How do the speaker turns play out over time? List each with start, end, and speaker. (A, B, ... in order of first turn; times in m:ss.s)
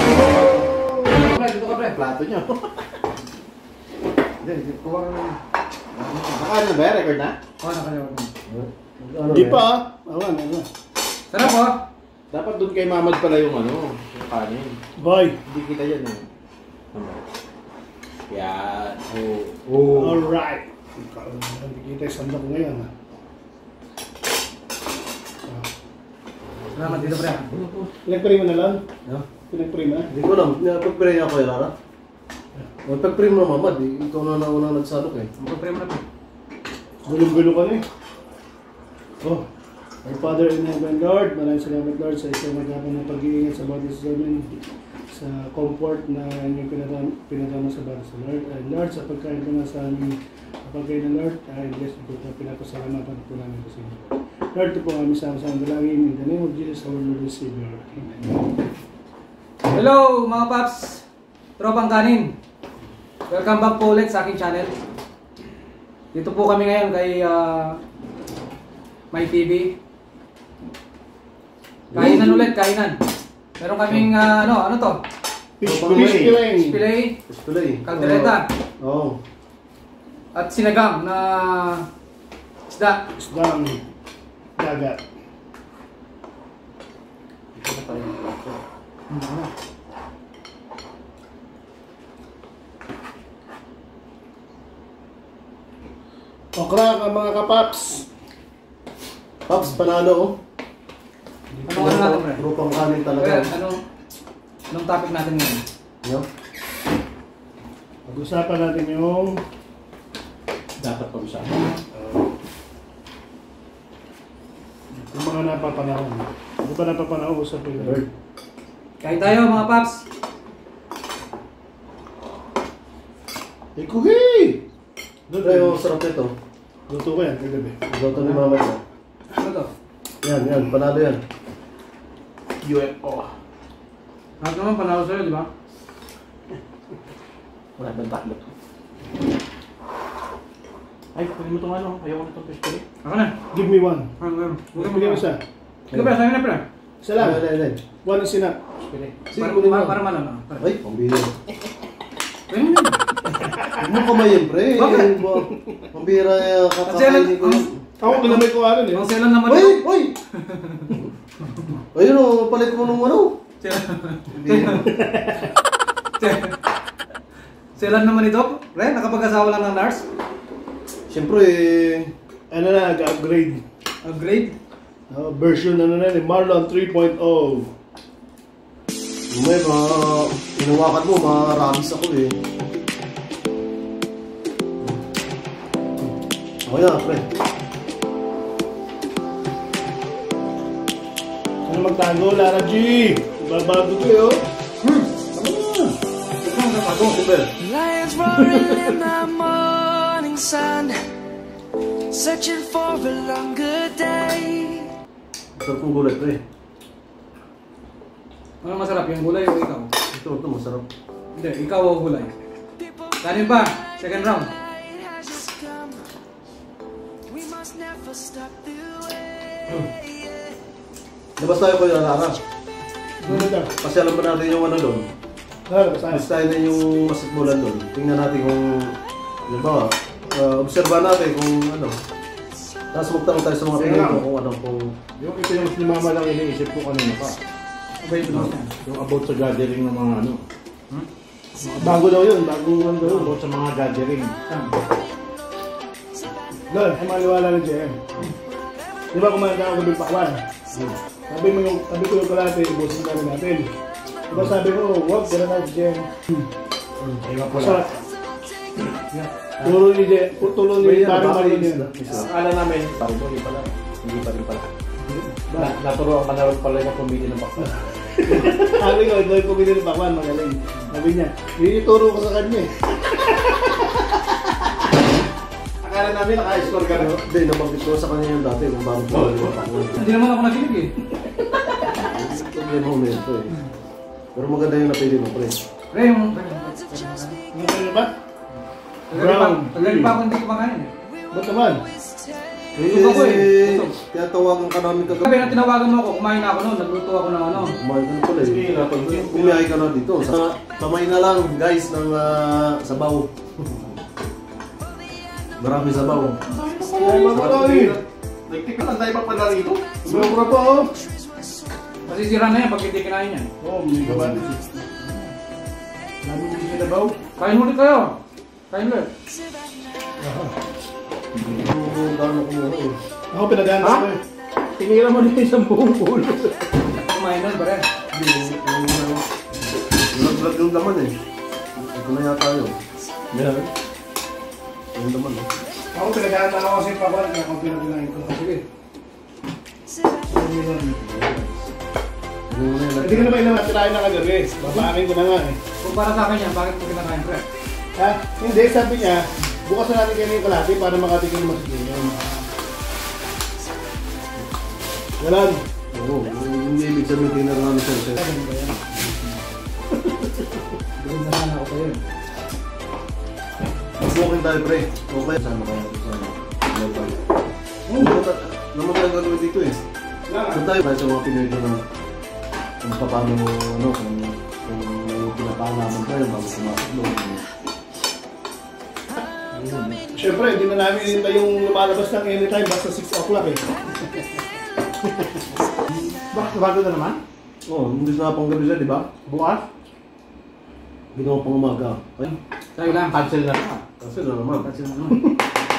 0:01.1-0:01.9 A
0:01.7-0:02.8 B
0:04.4-0:05.4 C
0:06.0-0:07.4 B
0:07.6-0:08.3 A
0:08.5-0:09.6 C
0:09.3-0:10.7 D
0:11.3-0:11.8 A
0:12.3-0:14.8 B
0:15.0-0:15.4 D
0:15.4-0:16.3 B
0:16.9-0:17.2 B
0:18.3-0:20.2 B
0:19.9-0:22.9 D
0:26.7-0:27.5 A
0:26.9-0:27.9 B
0:28.0-0:28.8 D
0:29.5-0:30.1 D
0:30.1-0:31.7 C
0:32.8-0:35.3 C
0:35.4-0:36.0 A
0:37.0-0:37.8 D
0:40.0-0:44.5 D
0:45.1-0:58.3 D
0:59.7-1:01.0 A
1:01.6-1:02.3 A
1:03.3-1:04.7 A
1:06.1-1:07.8 A
1:09.1-1:09.7 A
1:11.9-1:12.4 C
1:11.9-1:13.0 A
1:12.2-1:12.5 D
1:13.6-1:15.0 A
1:15.6-1:16.8 D
1:15.6-1:16.3 C
1:15.6-1:16.4 B
1:16.4-1:17.2 A
1:17.3-1:19.2 C
1:17.8-1:18.5 A
1:20.3-1:21.9 A
1:22.7-1:23.0 A
1:23.2-1:23.8 D
1:24.6-1:25.0 D
1:27.6-1:28.6 B
1:29.1-1:29.5 A
1:36.5-1:38.0 D
1:39.4-1:40.4 C
1:41.6-1:42.4 A
1:41.7-1:43.5 C
1:43.2-1:43.8 A
1:44.7-1:45.6 A
1:48.1-1:49.4 D
1:50.8-1:51.6 B
1:52.0-1:52.2 D
1:54.9-1:58.1 D
1:57.8-1:58.0 C
1:59.0-2:00.0 A
2:03.8-2:04.6 D
2:05.3-2:05.7 B
2:05.4-2:06.3 C
2:06.9-2:07.8 D
2:07.9-2:08.8 C
2:09.3-2:09.7 A
2:10.2-2:11.2 C
2:12.6-2:13.3 B
2:14.4-2:15.5 A
2:17.8-2:18.5 B
2:21.1-2:22.8 B
2:23.0-2:23.3 A
2:23.5-2:24.1 D
2:24.2-2:25.2 A
2:24.7-2:25.4 D
2:25.9-2:26.2 C
2:25.9-2:26.6 A
2:27.0-2:28.6 D
2:27.2-2:27.8 C
2:28.8-2:29.2 B
2:29.3-2:29.9 C
2:29.3-2:30.7 A
2:30.6-2:31.3 C
2:32.5-2:33.0 A
2:33.8-2:37.8 C
2:34.7-2:35.2 A
2:36.8-2:39.8 A
2:38.0-2:39.0 D
2:39.4-2:40.1 C
2:40.3-2:41.7 A
2:41.9-2:43.4 C
2:43.6-2:44.9 A
2:44.3-2:44.9 C
2:44.9-2:45.5 D
2:46.2-2:46.6 A
2:47.8-2:50.0 A
2:51.1-2:52.1 C
2:52.5-2:53.6 D
2:54.0-2:54.6 A
2:55.1-2:57.7 D
2:59.3-3:02.3 C
3:06.6-3:07.2 C
3:11.6-3:14.4 D
3:14.8-3:15.1 A
3:15.4-3:15.9 D
3:16.4-3:17.2 A
3:17.0-3:17.5 C
3:17.6-3:21.0 E
3:22.1-3:24.9 E
3:25.6-3:26.4 C
3:28.6-3:29.9 A
3:30.1-3:30.9 C
3:31.3-3:32.3 A
3:32.8-3:33.1 E
3:33.2-3:34.5 A
3:34.7-3:36.0 E
3:37.3-3:39.3 E
3:39.9-3:40.6 E
3:41.4-3:42.4 C
3:43.2-3:43.7 D
3:43.8-3:45.1 C
3:45.7-3:46.2 D
3:46.1-3:49.0 C
3:49.5-3:52.0 C
3:52.9-3:54.9 C
3:53.8-3:54.2 D
3:55.2-3:57.4 B
3:58.0-3:58.7 A
3:58.8-4:00.4 B
4:01.6-4:02.0 B
4:01.8-4:03.3 D
4:03.0-4:04.3 B
4:04.5-4:04.7 A
4:06.7-4:08.1 D
4:09.1-4:10.4 D
4:11.3-4:13.7 D
4:14.3-4:16.5 D
4:17.2-4:17.8 B
4:17.5-4:17.9 D
4:19.6-4:21.9 D
4:20.8-4:22.3 C
4:22.0-4:24.6 B
4:25.5-4:25.7 D
4:25.5-4:28.8 B
4:28.3-4:32.7 D
4:35.8-4:37.1 B
4:36.5-4:40.0 C
4:39.1-4:39.9 B
4:40.0-4:40.9 A
4:41.9-4:43.6 C
4:44.3-4:45.6 C
4:45.9-4:47.4 A
4:47.5-4:48.1 D
4:49.1-4:50.9 A
4:49.1-4:50.2 D
4:51.3-4:51.8 D
4:52.8-4:55.5 C
4:52.8-4:54.0 A
4:55.2-4:57.7 A
4:57.5-5:03.9 C
4:58.4-4:59.6 B
5:05.6-5:06.4 C
5:06.4-5:10.3 B
5:07.0-5:08.0 D
5:07.3-5:08.0 C
5:10.0-5:10.9 D
5:12.0-5:13.5 A
5:13.6-5:14.8 D
5:14.0-5:14.4 B
5:16.2-5:17.2 B
5:17.4-5:18.2 A
5:18.7-5:19.1 A
5:20.2-5:20.6 D
5:21.3-5:21.7 B
5:21.6-5:23.0 C
5:23.3-5:24.2 D
5:23.8-5:24.1 B
5:24.8-5:26.7 B
5:27.0-5:27.9 A
5:28.1-5:29.2 C
5:30.1-5:31.1 C
5:31.8-5:32.8 C
5:33.3-5:33.7 B
5:34.9-5:35.5 C
5:35.9-5:38.5 D
5:40.3-5:41.0 D
5:41.0-5:41.6 C
5:42.5-5:43.4 C
5:43.0-5:45.6 D
5:45.8-5:47.4 A
5:48.0-5:52.4 D
5:55.2-5:55.6 D
5:55.9-5:58.2 C
5:58.2-5:59.3 A
6:01.0-6:02.0 A
6:04.0-6:07.2 C
6:07.9-6:08.2 D
6:08.0-6:09.8 C
6:10.3-6:10.6 D
6:10.5-6:11.8 C
6:12.8-6:17.4 C
6:19.5-6:20.0 B
6:20.1-6:23.6 D
6:26.3-6:27.2 B
6:27.6-6:29.1 C
6:29.2-6:29.6 B
6:31.1-6:32.3 C
6:32.2-6:33.2 A
6:32.9-6:33.8 B
6:34.0-6:34.7 C
6:34.6-6:35.2 A